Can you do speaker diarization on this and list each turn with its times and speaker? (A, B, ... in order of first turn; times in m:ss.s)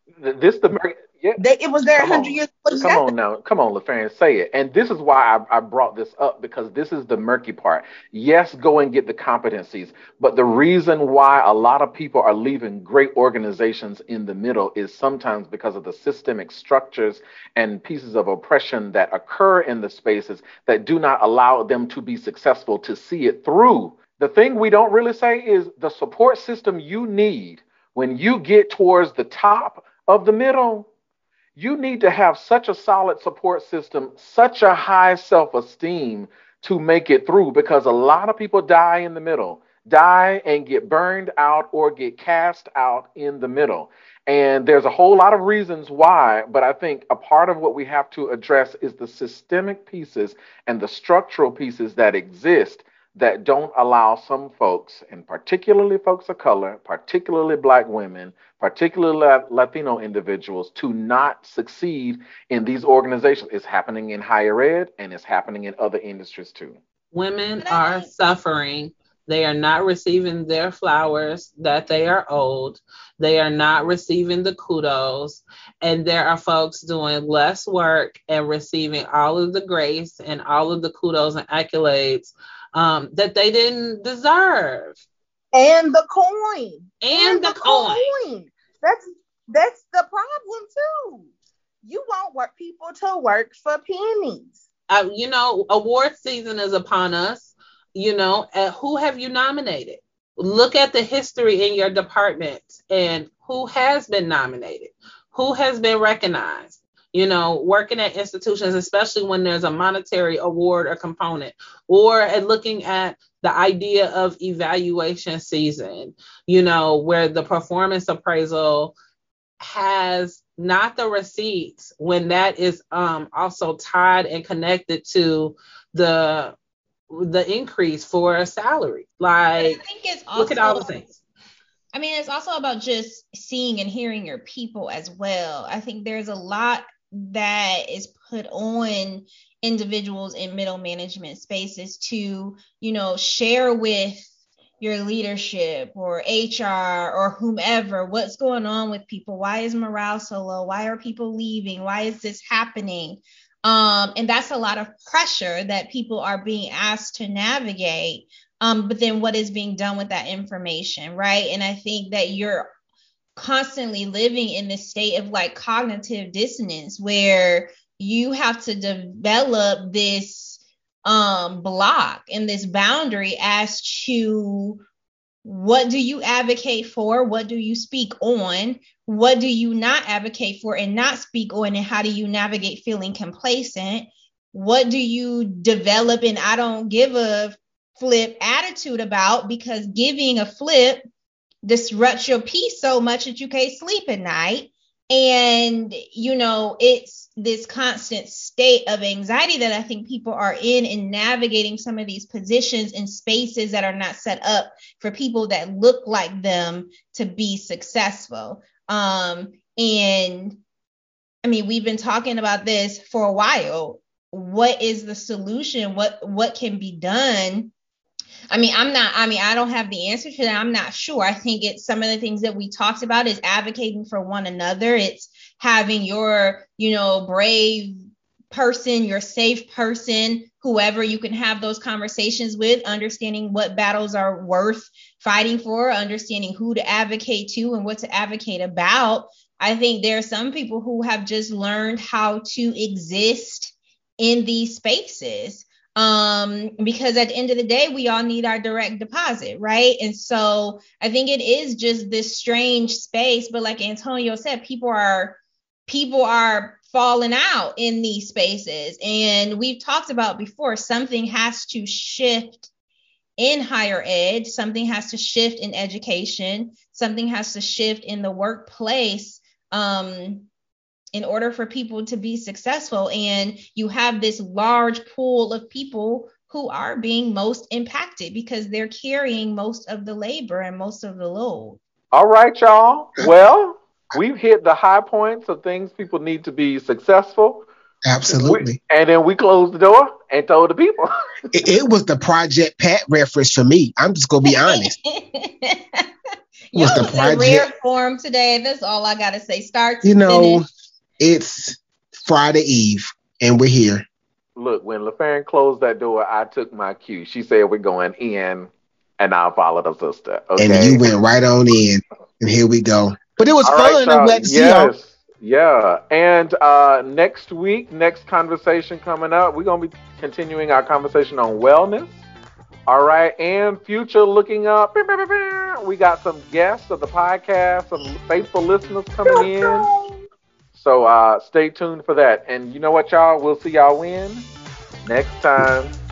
0:00.2-0:01.4 A
0:01.4-0:03.1 B
0:02.0-0:30.9 A
0:31.6-1:06.8 A
1:07.1-1:25.0 C
1:07.6-1:08.1 D
1:25.5-1:31.3 B
1:27.0-1:28.1 C
1:31.8-1:34.6 B
1:34.9-1:59.0 C
1:59.6-2:06.6 C
2:07.1-2:09.8 C
2:09.6-2:10.9 D
2:10.4-2:11.2 C
2:11.9-2:24.3 D
2:24.8-2:42.7 D
2:43.4-2:54.8 D
2:55.4-3:11.0 D
3:11.6-3:30.6 D
3:31.4-3:37.7 D
3:38.5-3:48.0 D
3:48.5-4:22.7 D
4:23.4-4:30.5 D
4:31.1-4:41.8 D
4:42.1-4:47.7 A
4:48.0-4:48.8 E
4:48.3-4:51.1 A
4:51.5-4:55.0 E
4:54.4-4:56.1 D
4:56.7-5:00.6 D
4:56.7-4:57.7 E
5:00.0-5:00.7 E
5:01.2-5:04.0 E
5:04.6-5:11.0 A
5:10.6-5:14.9 E
5:13.6-5:22.2 A
5:22.9-5:29.9 A
5:29.3-5:30.2 B
5:30.7-5:34.5 A
5:35.0-5:35.9 A